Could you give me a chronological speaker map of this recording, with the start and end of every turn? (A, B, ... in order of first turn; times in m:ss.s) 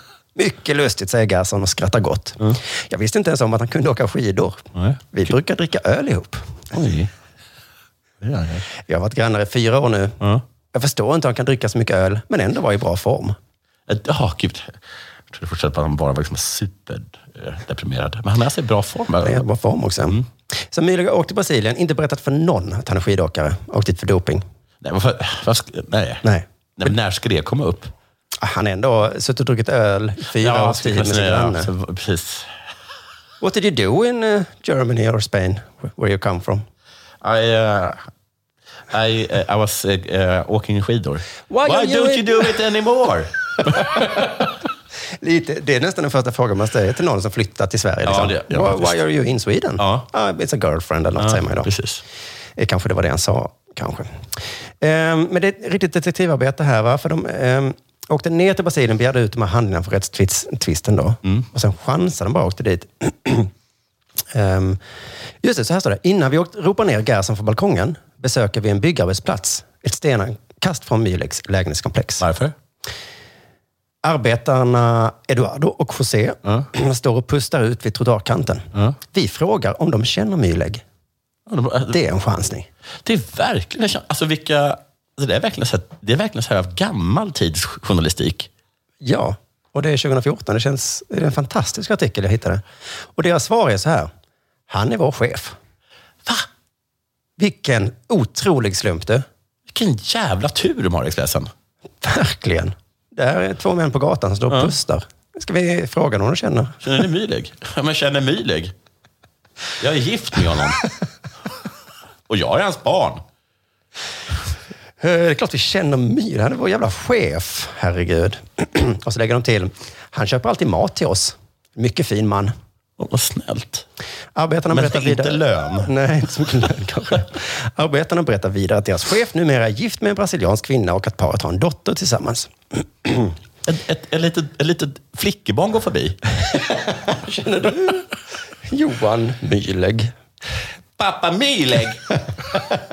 0:00.3-0:06.6 A
0:04.7-0:05.0 B
0:06.7-0:07.1 B
0:08.2-0:08.6 B
0:08.8-0:10.2 A
0:10.7-0:13.4 A
0:13.9-0:14.8 B
0:15.3-0:19.4 B
0:19.2-0:24.4 A
0:24.8-0:26.2 B
0:26.8-0:27.9 B
0:28.4-0:31.7 A
0:30.4-0:32.5 B
0:33.4-0:36.6 A
0:37.2-0:38.0 B
0:38.9-0:44.0 B
0:41.5-0:42.5 A
0:43.8-0:44.2 A
0:45.2-0:51.7 A
0:48.0-0:49.0 B
0:49.8-0:50.1 B
0:51.2-0:52.0 B
0:52.6-0:54.3 A
0:54.8-1:03.5 A
1:04.3-1:04.8 A
1:05.4-1:12.2 A
1:12.2-1:12.5 B
1:14.0-1:20.8 A
1:21.5-1:22.0 B
1:21.9-1:22.7 A
1:23.0-1:28.5 B
1:29.0-1:32.6 A
1:33.1-1:34.1 A
1:34.7-1:35.6 A
1:37.4-1:39.2 A
1:39.7-1:41.5 B
1:42.0-1:46.8 A
1:46.8-1:48.7 B
1:49.8-1:50.8 B
1:52.3-1:53.2 B
1:55.0-2:02.5 A
2:03.0-2:03.8 B
2:04.3-2:13.3 A
2:04.7-2:05.9 B
2:13.6-2:16.2 B
2:16.8-2:18.1 A
2:18.6-2:20.1 A
2:21.0-2:22.0 B